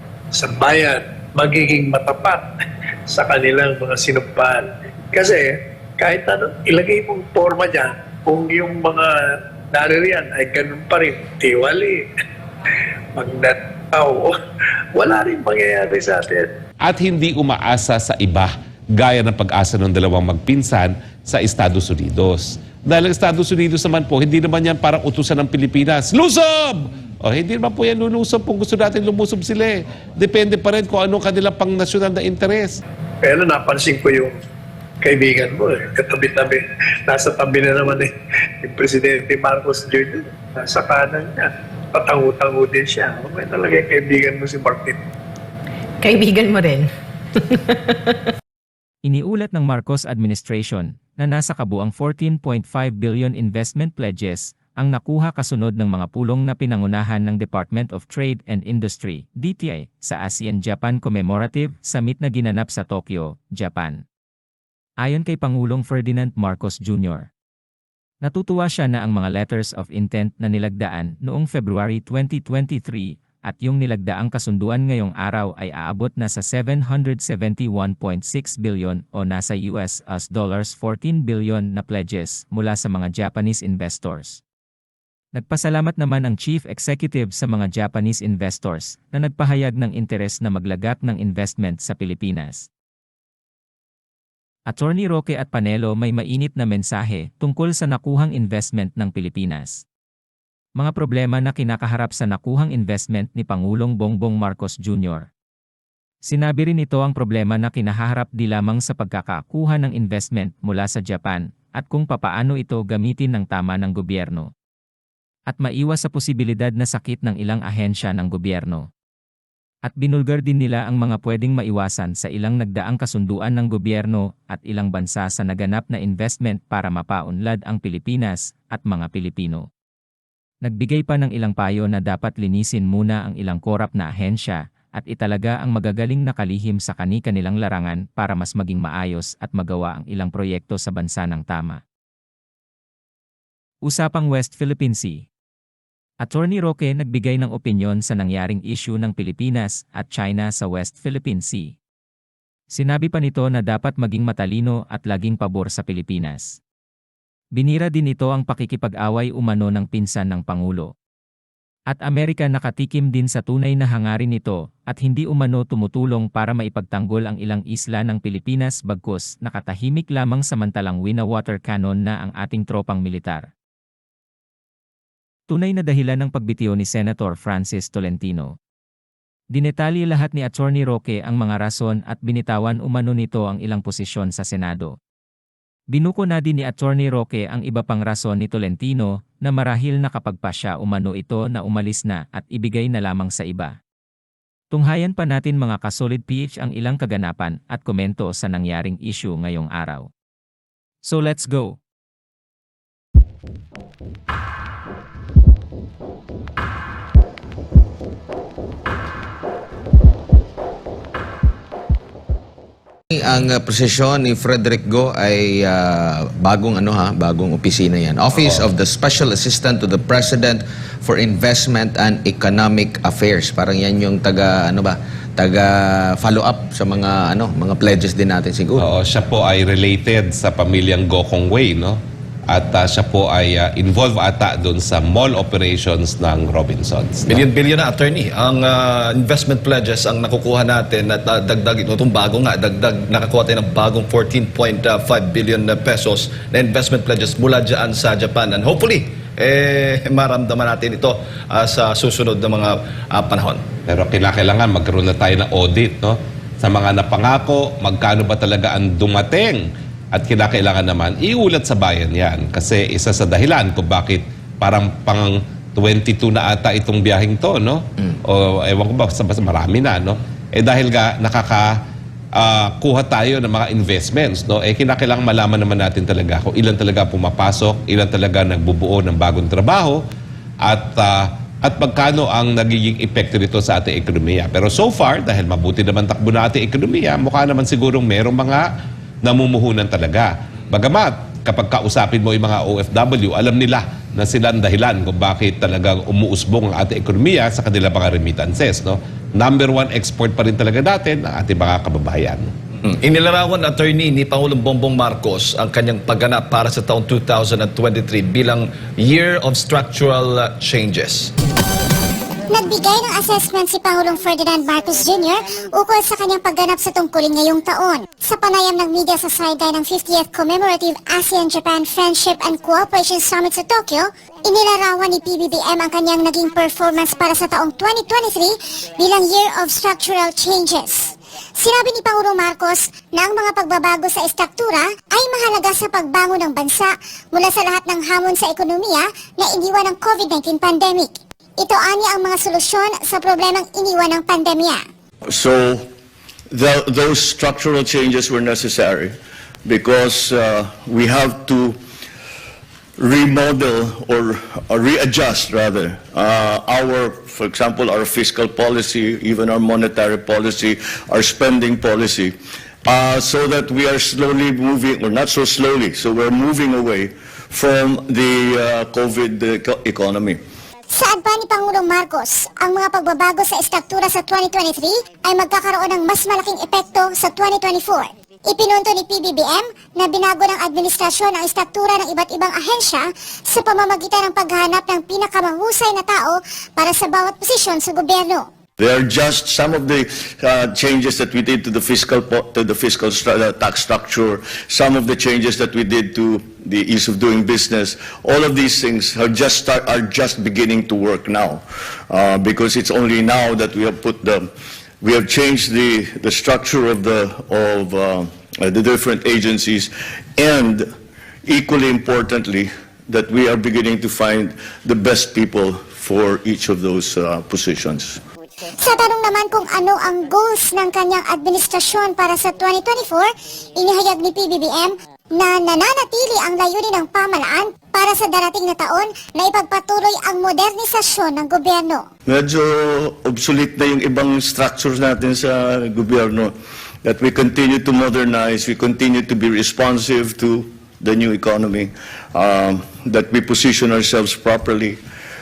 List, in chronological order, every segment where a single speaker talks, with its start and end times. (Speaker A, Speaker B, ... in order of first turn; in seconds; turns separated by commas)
Speaker A: 0.3-2.5, Speaker A: 3.1-12.1, Speaker A: 13.1-14.4, Speaker A: 14.9-16.5, Speaker B: 16.8-32.8, Speaker A: 33.2-34.4, Speaker A: 35.0-45.0, Speaker C: 46.0-48.2, Speaker D: 49.0-64.0, Speaker D: 65.0-67.3, Speaker D: 68.2-84.4, Speaker D: 85.3-92.7, Speaker D: 94.7-99.8, Speaker D: 100.8-105.3, Speaker D: 106.2-114.5, Speaker D: 115.5-118.9, Speaker D: 119.8-129.7, Speaker D: 130.6-141.8, Speaker D: 143.8-145.2, Speaker D: 146.2-151.7, Speaker D: 152.7-156.6, Speaker D: 157.5-160.9, Speaker D: 161.9-173.5, Speaker D: 175.5-178.5, Speaker D: 179.5-185.0, Speaker D: 185.9-193.8, Speaker D: 194.7-200.1, Speaker D: 201.0-201.8, Speaker E: 213.1-228.8, Speaker B: 228.8-237.4, Speaker F: 237.3-253.6, Speaker B: 253.9-271.8, Speaker B: 272.3-280.0, Speaker B: 280.6-288.7, Speaker B: 289.2-302.5, Speaker F: 302.8-311.3, Speaker G: 312.5-344.8, Speaker H: 345.2-345.9, Speaker H: 346.5-351.8, Speaker H: 353.0-370.4, Speaker G: 370.9-388.5, Speaker H: 388.8-404.5, Speaker H: 405.0-410.9, Speaker H: 411.4-418.2, Speaker G: 418.8-432.1, Speaker H: 432.2-436.5, Speaker H: 437.0-445.0